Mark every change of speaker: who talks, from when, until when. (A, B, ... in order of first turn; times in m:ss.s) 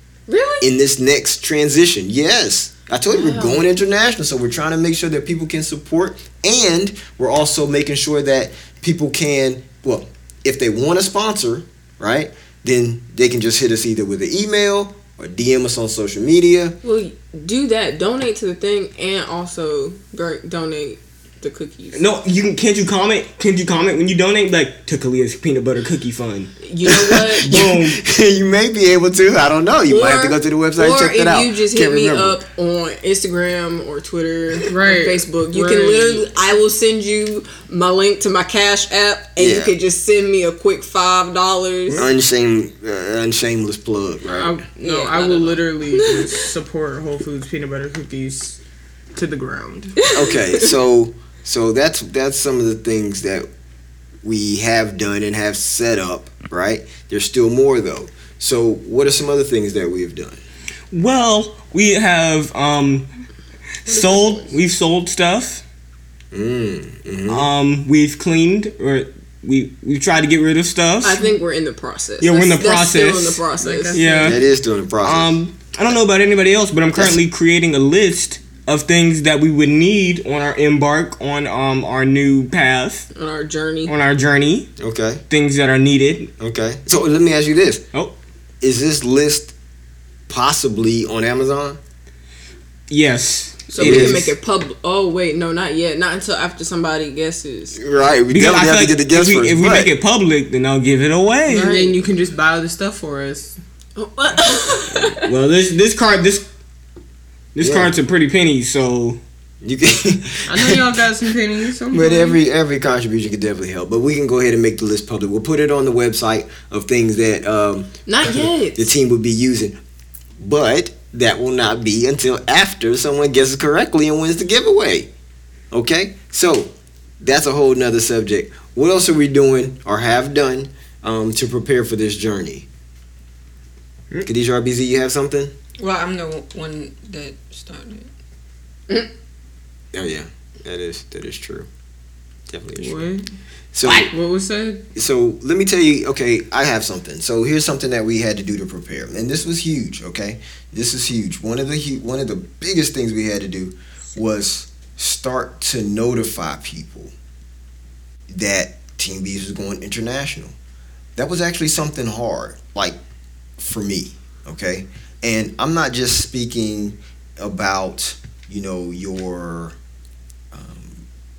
0:00.3-0:00.7 A
0:00.6-0:16.8 B
0:03.1-0:03.6 A
0:16.8-0:22.0 A
0:21.9-0:26.5 C
0:26.6-0:27.6 A
0:27.2-0:28.0 C
0:27.4-0:32.4 B
0:29.8-0:42.1 A
0:34.6-0:36.2 D
0:39.4-0:39.7 B
0:41.9-0:44.6 B
0:44.3-0:48.6 D
0:44.8-0:46.5 A
0:49.1-0:50.0 D
0:50.0-0:50.6 A
0:50.1-0:53.5 B
0:54.2-1:00.4 B
1:00.9-1:03.1 C
1:03.8-1:05.6 C
1:03.9-1:04.5 A
1:06.3-1:07.5 B
1:07.3-1:11.2 C
1:11.0-1:14.2 A
1:12.2-1:14.4 C
1:13.6-1:14.4 D
1:14.2-1:15.4 B
1:15.0-1:23.1 C
1:16.9-1:17.2 B
1:23.1-1:23.9 A
1:23.8-1:24.7 C
1:24.8-1:25.2 B
1:25.3-1:26.3 C
1:26.4-1:27.8 B
1:28.6-1:29.5 B
1:30.3-1:31.8 B
1:32.9-1:34.3 C
1:33.7-1:37.8 A
1:33.8-1:34.2 B
1:37.8-1:39.9 B
1:38.3-1:41.7 C
1:41.5-1:42.0 A
1:41.5-1:43.6 D
1:44.0-1:45.3 A
1:45.2-1:46.4 C
1:47.5-1:49.2 C
1:47.6-1:47.9 B
1:49.6-1:51.0 B
1:50.5-1:52.4 D
1:51.9-1:59.8 B
1:58.1-1:58.9 A
2:00.4-2:05.1 B
2:05.7-2:12.7 B
2:14.2-2:15.5 B
2:15.8-2:18.1 E
2:19.9-2:21.7 B
2:22.5-2:23.0 B
2:22.8-2:23.2 D
2:23.7-2:24.1 B
2:24.1-2:24.8 D
2:24.9-2:37.1 B
2:38.3-2:40.6 B
2:41.2-2:43.0 B
2:43.6-2:49.8 B
2:50.5-2:51.0 B